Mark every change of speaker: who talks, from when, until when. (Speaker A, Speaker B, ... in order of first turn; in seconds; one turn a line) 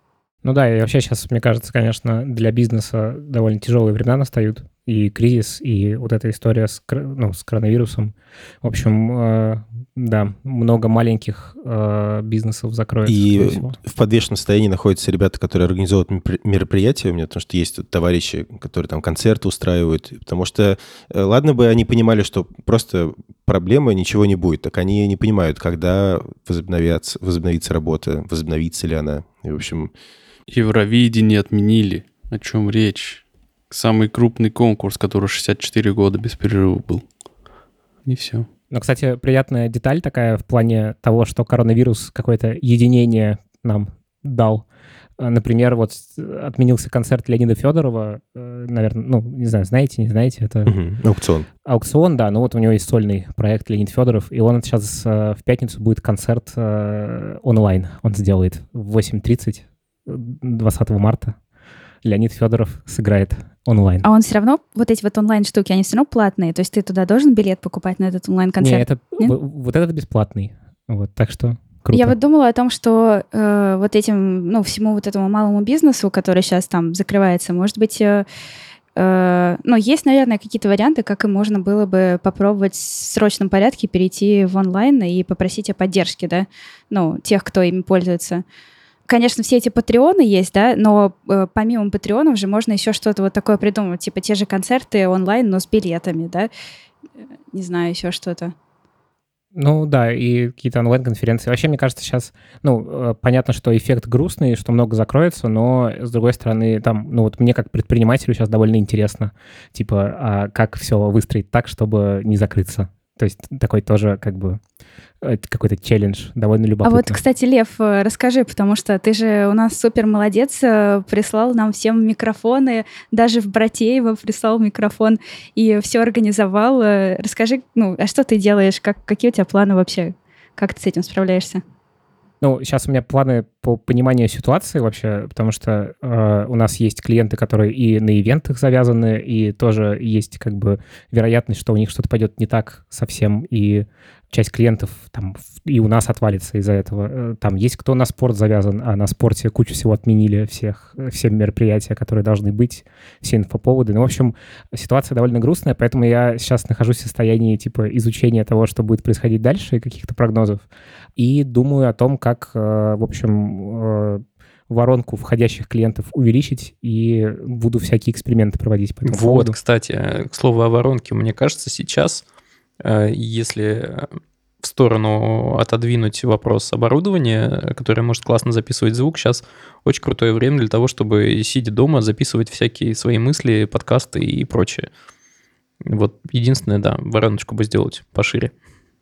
Speaker A: 0.4-13.8
Speaker B: 13.1-29.9
Speaker C: 30.5-37.1
Speaker C: 38.0-38.5
Speaker A: 38.7-44.6
Speaker A: 45.2-50.7
Speaker B: 50.6-51.5
Speaker A: 51.6-61.4
Speaker A: 62.0-64.1
Speaker D: 64.0-69.3
Speaker A: 68.6-72.2
Speaker D: 71.9-78.2
Speaker D: 79.0-88.4
Speaker D: 89.1-96.5
Speaker D: 97.5-98.5
Speaker A: 99.5-114.6
Speaker A: 115.2-117.2
Speaker D: 116.8-131.6
Speaker A: 132.4-169.6
Speaker E: 169.0-172.2
Speaker E: 172.8-174.1
Speaker E: 174.6-184.9
Speaker E: 185.8-188.5